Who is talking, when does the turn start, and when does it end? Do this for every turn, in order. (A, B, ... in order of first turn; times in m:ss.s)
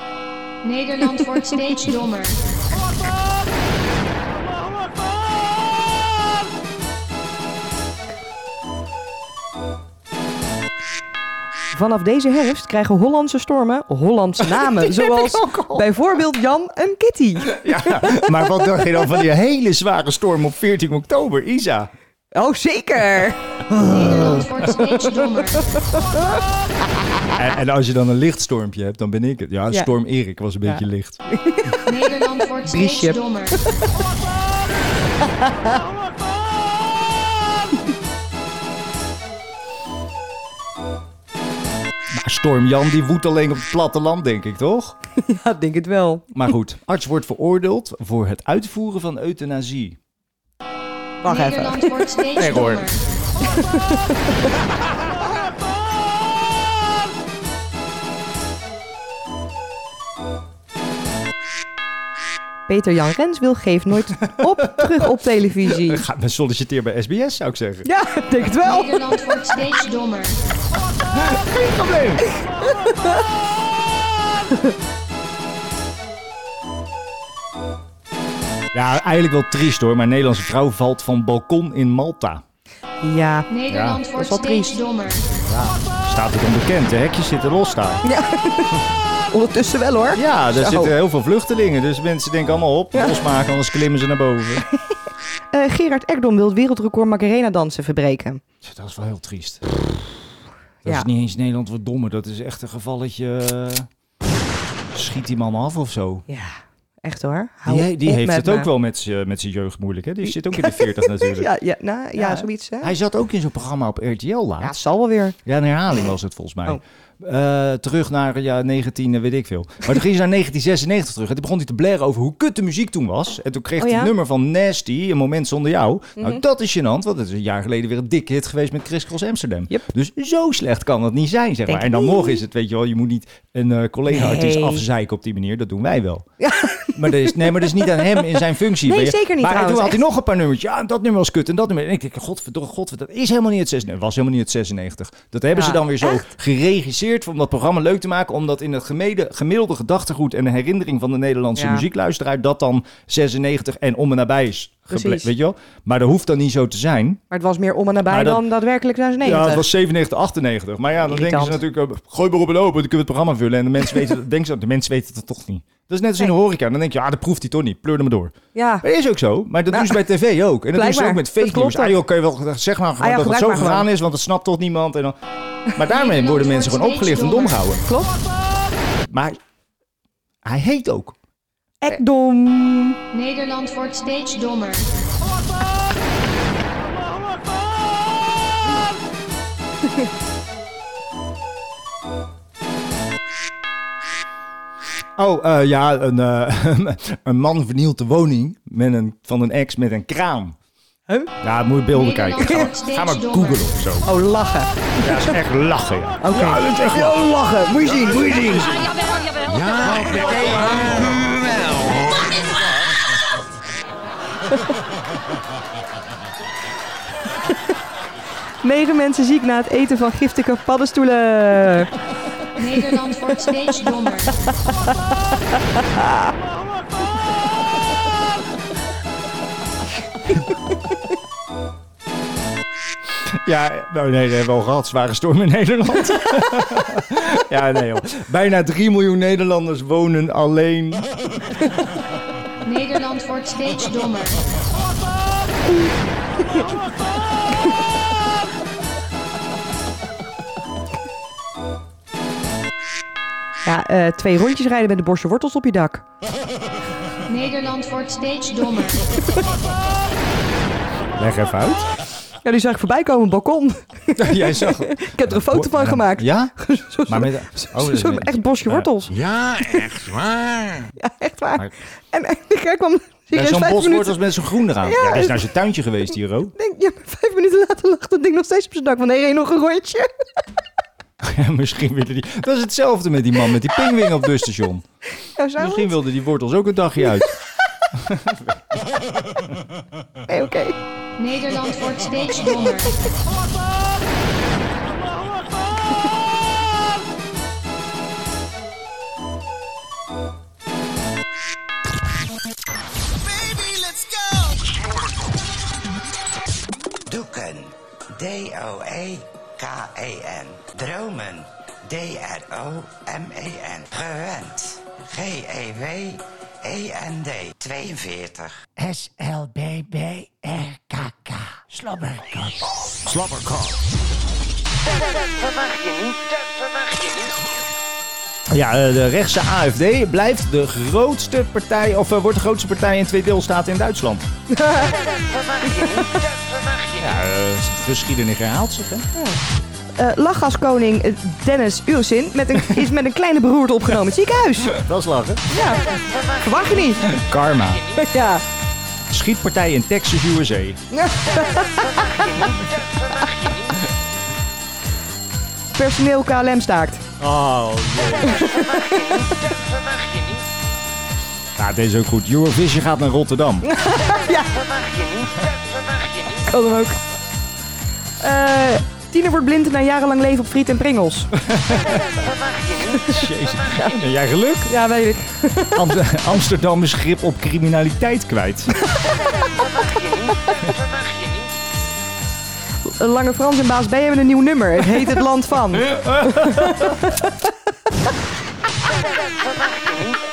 0:00.6-0:02.4 A
0:11.7-0:18.3 B
0:14.5-0:15.8 C
0:17.5-0:21.9 C
0:22.3-0:26.4 B
0:23.8-0:25.8 A
0:23.9-0:24.5 C
0:27.3-0:31.2 C
0:30.6-0:31.9 B
0:31.8-0:33.7 A
0:32.6-0:33.7 B
0:35.2-0:35.6 B
0:42.1-0:45.0 C
0:45.2-0:46.3 B
0:46.3-0:50.0 C
0:51.2-0:52.0 B
0:51.2-0:53.0 A
0:52.4-0:52.9 C
0:53.4-0:54.5 B
1:02.7-1:06.0 B
1:04.2-1:05.0 C
1:05.6-1:07.9 C
1:07.8-1:08.9 B
1:08.4-1:10.4 A
1:11.1-1:12.3 C
1:12.6-1:13.2 B
1:14.5-1:14.7 B
1:18.7-1:22.4 C
1:23.0-1:23.5 B
1:23.5-1:25.4 A
1:23.7-1:24.0 C
1:24.1-1:24.8 B
1:25.4-1:28.0 C
1:28.0-1:30.9 B
1:30.1-1:34.6 C
1:35.5-1:38.4 B
1:38.6-1:39.6 C
1:40.8-1:43.9 C
1:44.9-1:46.2 C
1:46.3-1:48.7 B
1:47.7-1:51.5 C
1:50.2-1:52.9 B
1:52.2-1:54.7 C
1:54.6-1:55.3 B
1:55.4-2:16.3 C
2:03.8-2:04.1 B
2:06.2-2:06.4 B
2:11.7-2:12.4 B
2:14.1-2:14.8 B
2:16.4-2:18.2 B
2:16.9-2:37.2 C
2:18.8-2:20.0 B
2:25.5-2:26.2 B
2:31.6-2:31.8 B
2:34.9-2:35.3 B
2:37.3-2:39.7 B
2:38.0-2:38.5 C
2:39.2-2:55.2 C
2:41.0-2:41.6 B
2:48.5-2:48.8 B
2:49.7-2:50.0 B
2:50.7-2:52.0 B
2:53.0-2:53.9 B
2:55.8-2:57.8 C
2:55.9-2:57.7 A
2:57.8-2:58.1 B
2:59.0-2:59.4 C
3:00.4-3:01.2 C
3:01.8-3:03.0 B
3:03.1-3:04.9 A
3:15.2-3:20.6 C
3:21.4-3:24.1 C
3:21.9-3:23.7 A
3:22.4-3:22.7 B
3:24.0-3:25.3 B
3:25.0-3:29.0 C
3:26.2-3:28.7 B
3:29.4-3:32.8 D
3:30.6-3:30.9 C
3:38.6-3:41.9 B
3:42.6-3:44.4 A
3:53.2-4:01.6 C
4:02.6-4:04.4 A
4:13.6-4:16.0 B
4:17.2-4:19.1 A
4:21.2-4:22.0 C
4:22.4-4:29.1 B
4:24.2-4:26.5 C
4:27.1-4:28.9 C
4:29.1-4:30.9 D
4:31.0-4:34.2 B
4:33.3-4:36.5 C
4:34.8-4:35.4 B
4:36.6-4:40.1 B
4:41.2-4:44.8 C
4:45.2-4:46.0 B
4:45.6-4:47.4 C
4:47.9-4:49.4 C
4:50.3-4:50.8 B
4:51.2-4:52.9 A
5:03.4-5:04.8 E
5:07.1-5:18.6 E
5:18.8-5:23.7 C
5:23.1-5:23.5 D
5:28.5-5:34.3 C
5:34.5-5:35.0 B
5:35.6-5:36.2 B
5:37.0-5:39.1 C
5:39.1-5:39.4 B
5:40.0-5:44.8 B
5:44.7-5:45.4 C
5:45.5-5:45.8 B
5:46.4-5:47.1 B
5:46.9-5:47.8 C
5:47.9-5:48.4 B
5:49.1-5:50.8 C
5:50.9-5:52.4 B
5:53.2-5:53.5 B
5:55.7-5:57.1 B
5:57.2-5:58.5 C
5:58.2-5:59.1 B
6:01.6-6:03.7 C
6:03.6-6:04.5 B
6:06.4-6:07.0 B
6:08.2-6:11.3 B
6:11.4-6:12.3 C
6:13.0-6:14.7 C
6:14.7-6:15.9 B
6:15.7-6:18.8 C
6:22.8-6:27.4 B
6:25.8-6:27.1 C